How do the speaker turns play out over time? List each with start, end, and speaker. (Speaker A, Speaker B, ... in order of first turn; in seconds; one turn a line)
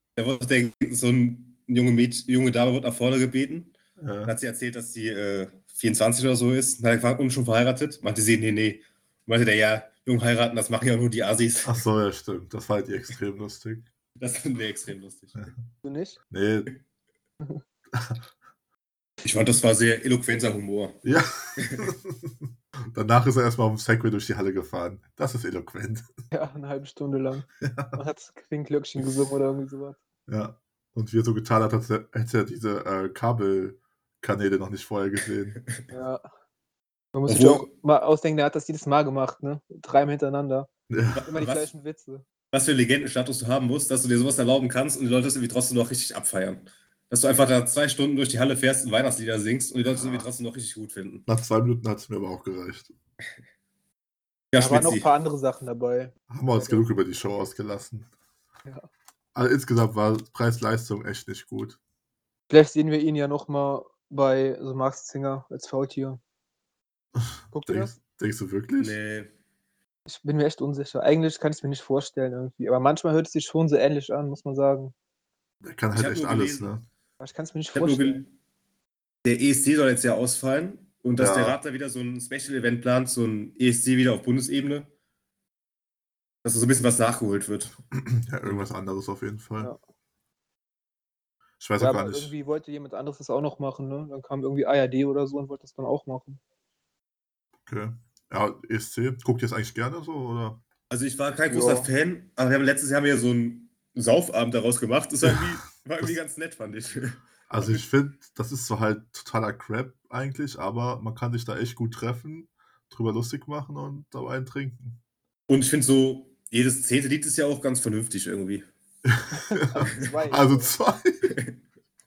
Speaker A: 0.1-11.8
Speaker B: 4.0-4.3
Speaker B: 11.6-13.8
Speaker A: 14.2-15.5
Speaker C: 15.8-16.2
Speaker B: 16.3-16.7
Speaker B: 17.9-18.2
Speaker A: 19.2-21.0
Speaker B: 21.0-26.1
Speaker A: 21.6-21.9
Speaker C: 26.3-30.0
Speaker B: 27.6-28.0
Speaker B: 30.3-35.6
Speaker C: 35.9-36.2
Speaker C: 37.1-40.7
Speaker A: 37.3-37.6
Speaker B: 40.9-41.2
Speaker A: 41.1-41.7
Speaker C: 41.3-42.2
Speaker A: 42.5-51.2
Speaker B: 49.9-50.3
Speaker B: 51.3-52.9
Speaker A: 54.5-55.1
Speaker C: 54.6-56.8
Speaker B: 56.3-58.1
Speaker B: 59.3-61.8
Speaker C: 62.5-66.2
Speaker B: 67.2-69.0
Speaker C: 67.5-67.9
Speaker A: 68.8-69.3
Speaker C: 70.0-74.9
Speaker B: 75.6-76.8
Speaker A: 75.9-76.7
Speaker C: 77.2-78.2
Speaker A: 77.7-78.3
Speaker A: 79.2-84.9
Speaker B: 81.2-81.6
Speaker A: 86.4-87.8
Speaker B: 87.9-89.7
Speaker B: 91.6-92.3
Speaker C: 91.8-96.4
Speaker B: 97.7-100.6
Speaker A: 100.9-107.8
Speaker C: 101.5-101.9
Speaker B: 107.5-115.0
Speaker A: 115.5-118.7
Speaker B: 119.0-121.3
Speaker C: 119.3-120.7
Speaker A: 121.3-121.5